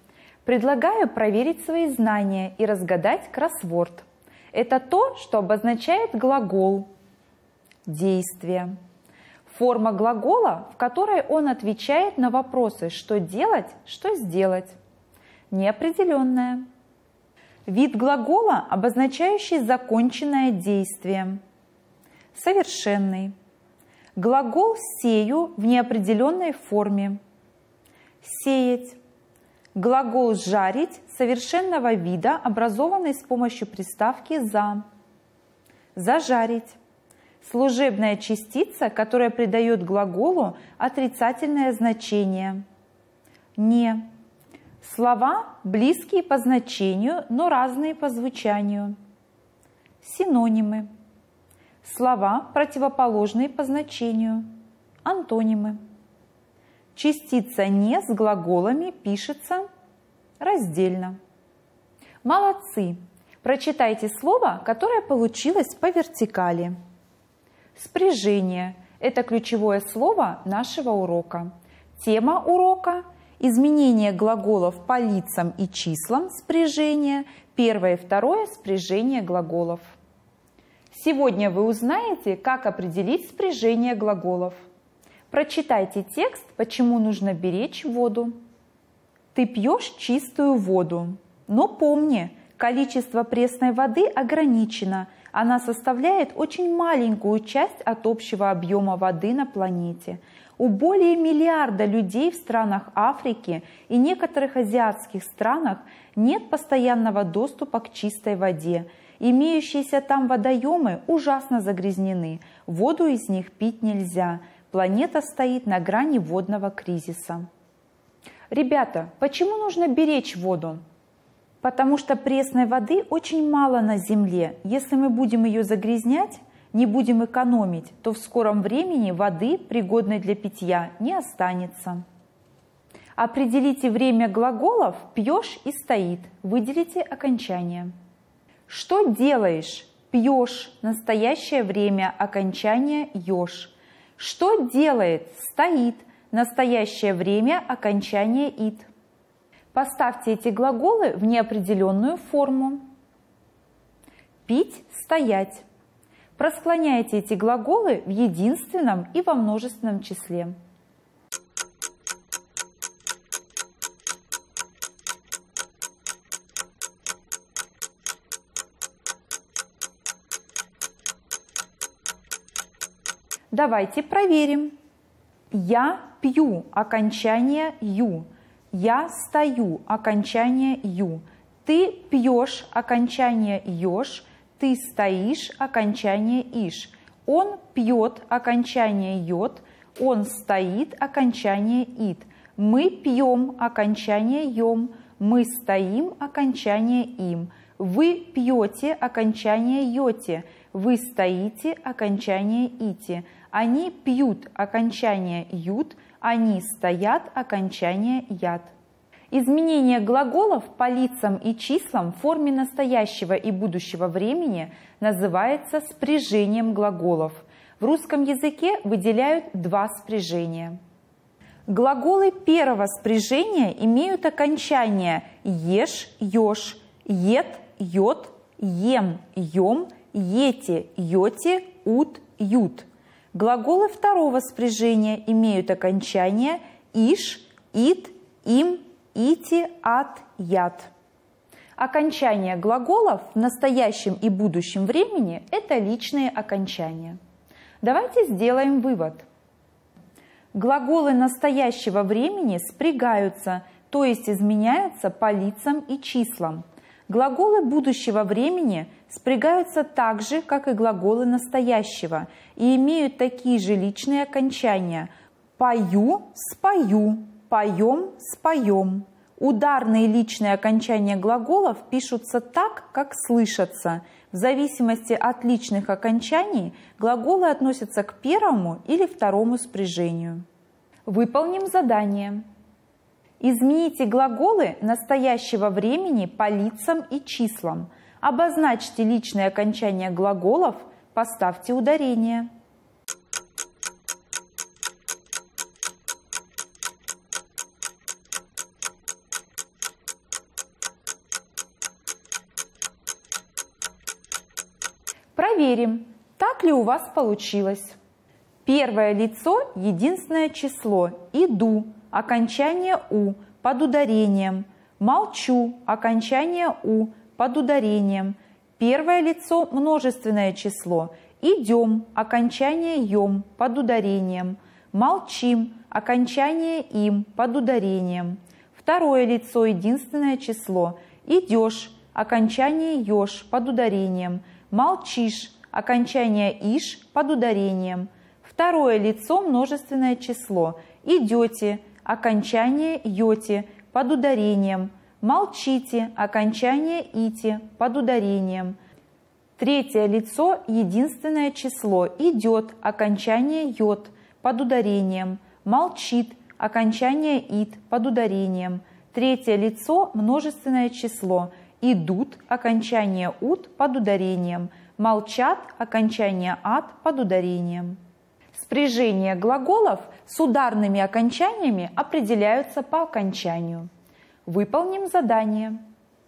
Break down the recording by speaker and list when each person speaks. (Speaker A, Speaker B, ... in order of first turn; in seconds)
Speaker A: 0.4-6.9, 7.8-8.7, 9.4-14.8, 15.5-16.7, 17.7-21.4, 22.3-23.3, 24.1-27.2, 28.2-29.0, 29.7-34.8, 35.9-36.8, 37.4-42.6, 43.6-44.1, 44.8-49.0, 50.0-50.9, 51.8-54.5, 55.0-55.8, 56.9-59.6, 60.4-61.2, 62.2-66.7, 67.7-80.0, 80.9-84.6, 85.3-88.3, 89.3-117.5, 118.5-120.8, 121.6-132.0, 133.2-137.9, 138.7-148.9, 149.7-152.8, 154.4-155.6, 156.4-160.5, 173.5-174.8, 175.5-208.7, 209.3-220.8, 221.7-240.9, 241.8-247.2, 247.8-249.2, 250.5-280.4, 281.1-282.4, 283.4-292.5, 305.4-308.0, 308.6-348.8, 349.6-368.0, 368.5-373.9, 374.4-375.8